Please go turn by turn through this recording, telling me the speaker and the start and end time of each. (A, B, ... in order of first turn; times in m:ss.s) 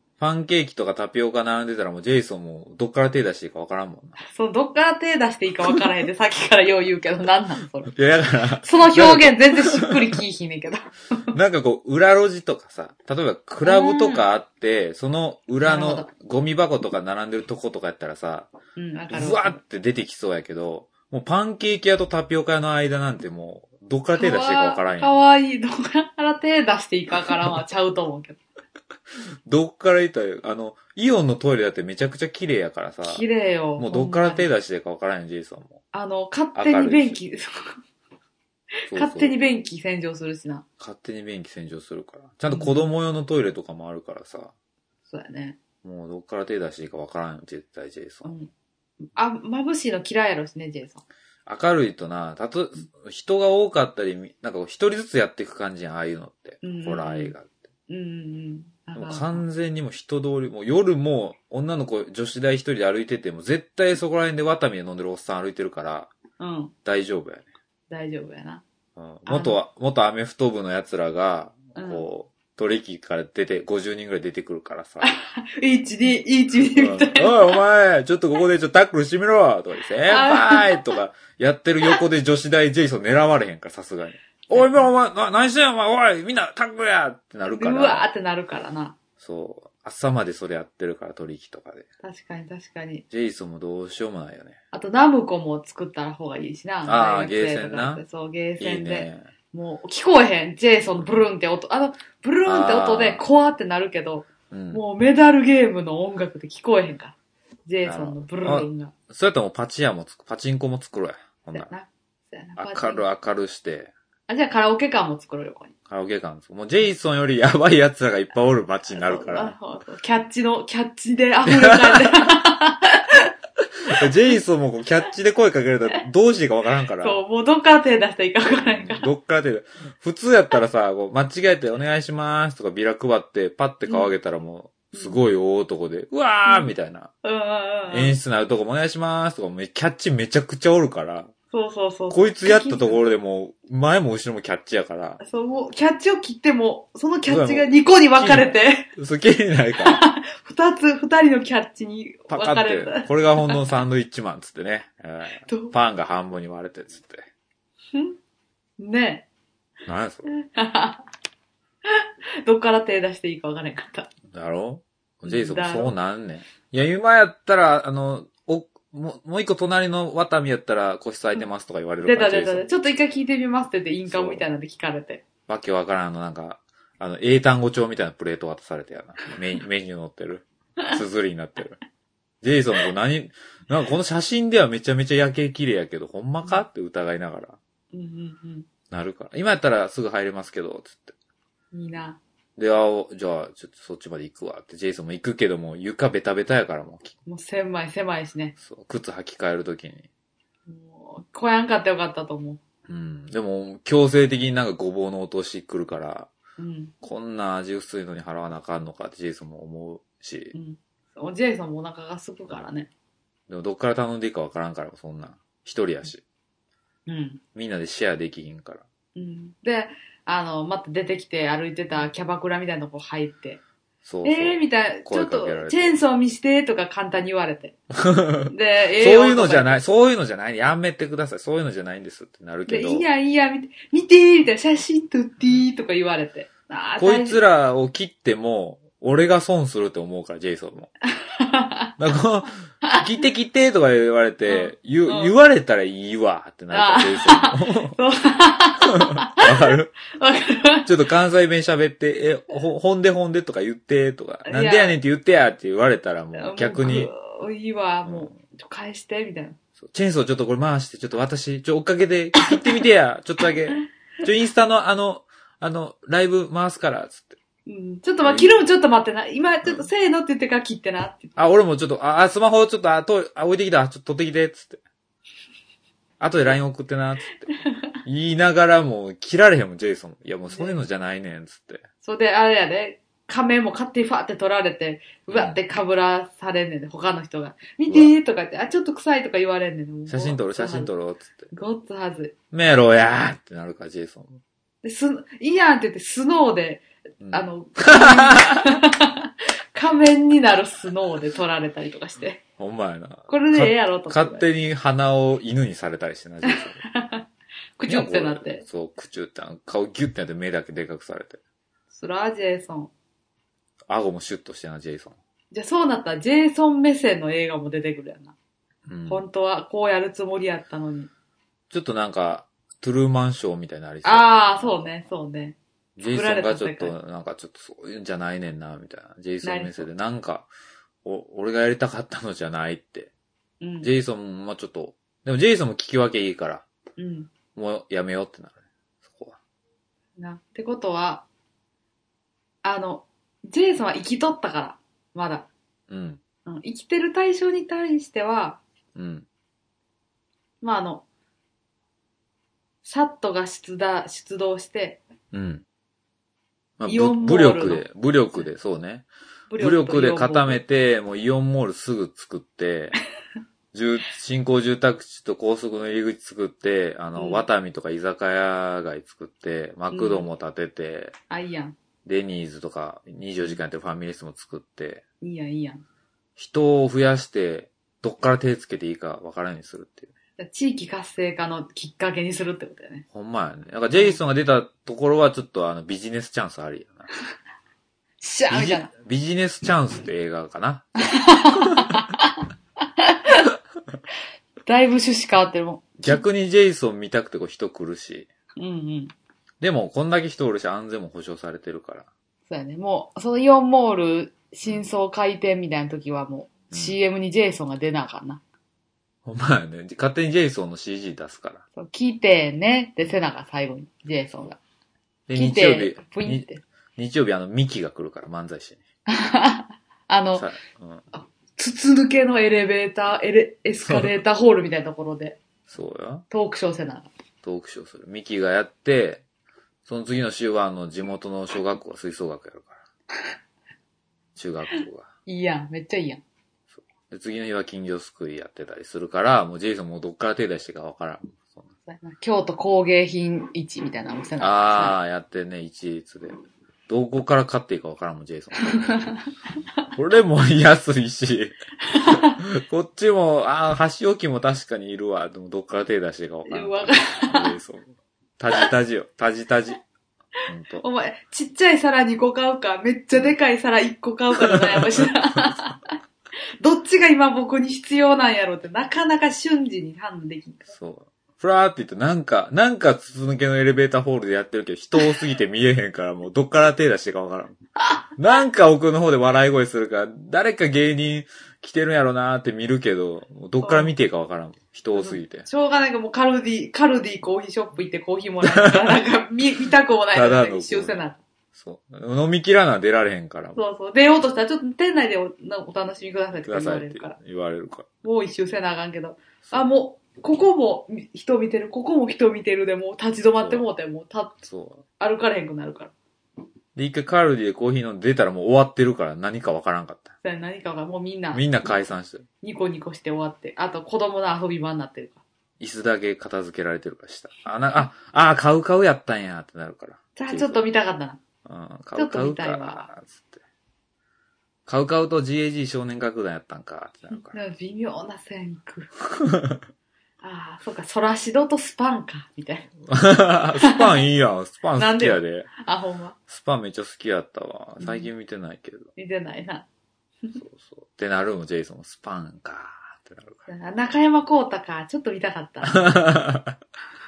0:00.2-0:04.2 A
0:04.2-0:07.9 B
0:07.9-0:10.1 A
0:08.6-0:11.3 B
0:11.3-0:18.5 A
0:13.6-0:14.3 B
0:15.6-0:16.1 B
0:18.8-0:19.6 B
0:19.1-0:25.2 A
0:24.2-0:28.4 B
0:29.4-0:33.2 A
0:33.0-0:34.4 B
0:33.8-0:35.8 A
0:35.9-0:37.8 B
0:36.5-0:37.2 A
0:38.9-0:40.6 B
0:38.9-0:39.3 A
0:40.8-0:44.5 A
0:42.5-0:42.8 B
0:45.1-0:45.6 B
0:45.8-0:48.3 A
0:48.2-0:48.5 B
0:49.1-0:51.0 B
0:51.4-0:57.6 A
0:56.6-0:57.3 B
0:57.9-0:59.4 B
0:58.9-1:06.1 A
1:06.4-1:06.7 B
1:06.8-1:07.4 A
1:07.9-1:08.6 B
1:09.0-1:15.2 A
1:09.3-1:09.6 B
1:11.8-1:12.0 B
1:15.0-1:17.6 B
1:16.8-1:28.1 A
1:20.1-1:20.9 B
1:24.5-1:24.9 B
1:27.5-1:29.0 B
1:29.2-1:31.9 A
1:32.0-1:33.0 B
1:33.1-1:34.6 A
1:34.7-1:48.9 B
1:36.8-1:38.0 A
1:38.6-1:39.3 A
1:42.4-1:43.2 A
1:44.5-1:44.8 A
1:47.8-1:51.7 A
1:51.5-1:53.0 B
1:52.6-1:53.9 A
1:54.3-1:55.7 B
1:55.9-1:59.5 A
1:58.9-2:03.3 B
2:01.4-2:02.4 A
2:03.8-2:07.2 A
2:07.0-2:09.1 B
2:08.6-2:17.1 A
2:13.8-2:14.1 B
2:14.9-2:15.2 B
2:16.5-2:18.2 B
2:17.9-2:21.3 A
2:21.5-2:23.0 B
2:22.1-2:25.2 A
2:25.2-2:28.9 B
2:27.3-2:30.0 A
2:29.8-2:33.6 B
2:32.3-2:37.2 A
2:35.5-2:35.7 B
2:38.8-2:39.2 B
2:39.8-2:40.3 A
2:40.3-2:41.0 B
2:41.8-2:44.1 B
2:44.3-2:52.6 A
2:45.2-2:45.9 B
2:52.0-2:55.2 B
2:54.0-2:54.4 A
2:55.5-3:01.8 A
3:02.4-3:07.6 A
3:07.9-3:08.7 B
3:08.9-3:11.1 A
3:11.7-3:12.2 B
3:12.6-3:17.1 A
3:17.2-3:18.5 B
3:18.6-3:20.1 A
3:20.7-3:22.6 B
3:22.9-3:26.3 A
3:26.6-3:26.9 B
3:27.0-3:30.5 A
3:30.5-3:32.9 B
3:33.5-3:36.2 A
3:37.1-3:37.4 B
3:37.5-3:38.8 A
3:39.1-3:43.6 B
3:44.0-3:46.0 A
3:44.2-3:47.8 B
3:47.9-3:53.0 A
3:48.5-3:49.8 B
3:52.7-3:57.4 B
3:57.0-4:00.9 A
4:01.2-4:01.9 B
4:02.0-4:08.0 A
4:04.5-4:05.3 B
4:06.7-4:10.9 B
4:08.8-4:09.9 A
4:10.8-4:17.1 A
4:14.4-4:15.0 B
4:16.4-4:19.6 B
4:18.0-4:18.4 A
4:19.8-4:27.4 A
4:27.6-4:31.3 B
4:28.2-4:28.6 A
4:31.3-4:34.8 A
4:36.2-4:37.5 A
4:38.0-4:41.8 A
4:40.5-4:40.8 B
4:42.0-4:50.9 B
4:45.3-4:45.6 A
4:47.9-4:48.1 A
4:50.1-4:51.5 A
4:51.5-4:52.3 B
4:52.5-4:54.4 A
4:54.8-5:02.4 B
4:57.2-4:58.7 A
5:02.6-5:06.8 A
5:03.3-5:04.4 B
5:06.5-5:07.2 B
5:07.8-5:08.6 B
5:07.9-5:11.4 A
5:11.9-5:12.9 B
5:13.9-5:15.2 A
5:15.5-5:18.3 B
5:18.9-5:19.2 A
5:19.1-5:21.1 B
5:21.7-5:24.9 A
5:24.0-5:26.9 B
5:26.0-5:30.5 A
5:29.4-5:29.9 B
5:31.0-5:33.1 A
5:33.6-5:33.9 B
5:33.8-5:36.6 A
5:37.0-5:37.3 B
5:37.5-5:39.4 A
5:40.2-5:41.2 B
5:42.6-5:45.5 B
5:45.9-5:46.2 A
5:46.4-5:48.6 B
5:49.0-5:49.2 A
5:50.6-5:51.0 B
5:52.8-5:55.0 B
5:55.3-5:55.6 A
5:56.8-5:59.1 A
5:56.9-5:57.8 B
5:59.5-6:00.6 B
5:59.6-6:03.0 A
6:03.7-6:11.1 A
6:07.1-6:07.4 B
6:09.9-6:10.3 B
6:11.3-6:11.8 B
6:12.0-6:15.0 A
6:15.2-6:15.8 B
6:16.4-6:20.1 A
6:20.4-6:23.0 B
6:23.1-6:27.1 A
6:23.9-6:24.2 B
6:28.2-6:28.9 B
6:28.5-6:32.0 A
6:31.1-6:32.4 B
6:33.0-6:33.5 B
6:34.6-6:36.2 B
6:36.0-6:38.3 A
6:38.6-6:39.1 B
6:39.6-6:42.1 A
6:42.5-6:48.4 B
6:46.7-6:47.0 A
6:49.2-6:51.6 A
6:51.8-6:54.6 B
6:55.3-6:58.8 A
6:55.3-6:56.6 B
6:59.1-7:00.5 B
7:00.3-7:01.0 A
7:01.1-7:05.4 B
7:03.8-7:04.2 A
7:05.7-7:06.2 A
7:06.3-7:07.1 B
7:07.4-7:09.2 A
7:09.8-7:12.8 A
7:14.4-7:15.1 A
7:15.2-7:16.2 B
7:17.1-7:21.6 A
7:21.8-7:25.0 B
7:24.4-7:26.4 A
7:26.9-7:29.1 A
7:28.7-7:29.0 B
7:29.9-7:39.8 A
7:31.9-7:32.4 B
7:36.5-7:37.5 B
7:40.5-7:40.8 A
7:40.8-7:45.9 B
7:44.5-7:45.6 A
7:46.6-7:50.7 B
7:50.7-7:57.6 A
7:58.2-8:05.5 A
8:03.6-8:03.9 B
8:04.9-8:11.2 B
8:08.4-8:09.0 A
8:10.1-8:11.0 A
8:11.5-8:13.6 A
8:13.5-8:17.2 B
8:16.4-8:17.9 A
8:18.0-8:24.3 B
8:23.4-8:23.6 A
8:24.4-8:24.8 A
8:25.0-8:25.9 B
8:26.7-8:30.1 A
8:30.2-8:31.7 B
8:31.3-8:32.2 A
8:32.4-8:35.2 B
8:35.6-8:40.6 A
8:40.2-8:41.2 B
8:41.4-8:43.4 A
8:41.9-8:42.9 B
8:44.7-8:47.3 A
8:47.1-8:48.9 B
8:49.0-8:49.6 A
8:50.2-8:52.7 B
8:52.9-8:55.5 A
8:53.6-8:54.0 B
8:54.8-8:56.1 B
8:56.3-8:58.9 A
8:57.8-8:58.1 B
8:59.0-8:59.6 B
9:00.3-9:03.5 A
9:03.5-9:06.0 B
9:05.6-9:06.6 A